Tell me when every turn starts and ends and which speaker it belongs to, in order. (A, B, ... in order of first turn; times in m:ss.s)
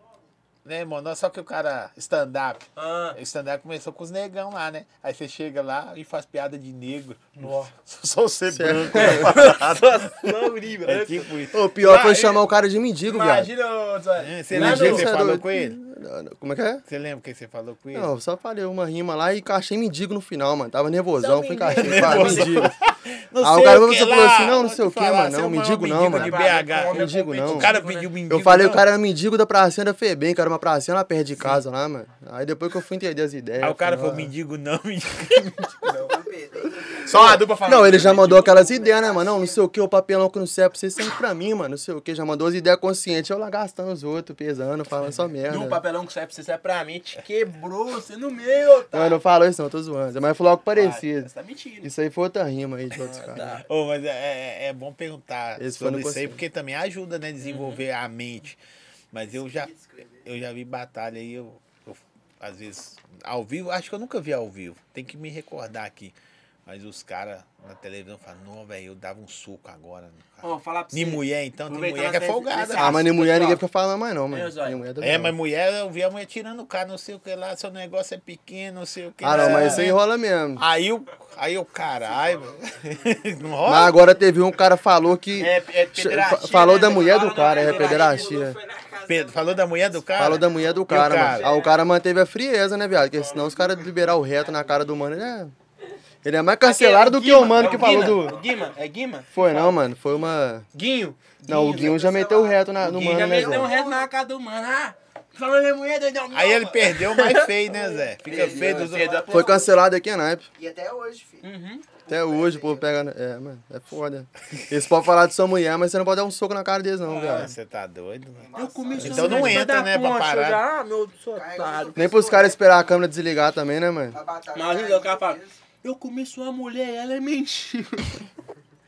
0:00.6-0:11.6 A
0:02.8-0:03.2 B
0:07.3-0:07.7 B
0:08.5-0:09.4 C
0:08.9-0:12.5 B
0:11.5-0:13.5 C
0:13.0-0:15.1 B
0:14.2-0:15.8 A
0:14.5-0:16.8 C
0:16.9-0:18.1 A
0:17.9-0:22.7 C
0:21.2-0:22.7 B
0:21.8-0:28.9 A
0:23.4-0:27.7 C
0:26.1-0:28.1 B
0:28.3-0:34.3 C
0:33.6-0:35.9 A
0:35.8-0:36.2 B
0:35.9-0:37.1 D
0:37.0-0:38.8 B
0:37.0-0:45.8 C
0:38.4-0:39.6 D
0:45.4-0:49.2 B
0:48.9-0:51.3 C
0:50.7-0:51.9 B
0:51.8-0:53.6 C
0:53.0-0:53.7 B
0:53.6-0:58.6 A
0:55.6-0:56.4 C
0:57.4-0:57.8 B
0:59.1-1:06.1 A
0:59.4-1:00.2 D
1:06.6-1:13.1 A
1:10.4-1:13.6 B
1:12.8-1:15.3 C
1:14.3-1:14.8 B
1:15.0-1:20.0 A
1:19.2-1:20.6 C
1:19.3-1:19.9 B
1:20.6-1:24.0 A
1:23.6-1:28.6 C
1:25.4-1:28.4 B
1:27.2-1:31.9 E
1:29.0-1:31.5 A
1:30.2-1:35.5 C
1:36.2-1:38.4 C
1:36.6-1:39.8 B
1:37.9-1:38.7 E
1:39.3-1:40.7 C
1:40.7-1:42.0 B
1:41.4-1:43.7 C
1:41.6-1:44.1 D
1:42.8-1:49.7 B
1:46.3-1:49.2 A
1:48.2-1:49.8 D
1:49.3-1:50.5 C
1:50.6-1:52.9 D
1:51.4-1:51.8 B
1:52.1-1:57.5 C
1:57.0-1:57.5 B
1:57.1-2:00.6 A
1:58.4-1:59.6 D
1:58.6-2:02.2 B
1:59.0-1:59.6 C
2:01.3-2:03.0 D
2:02.0-2:04.2 C
2:04.1-2:05.6 D
2:04.5-2:08.2 B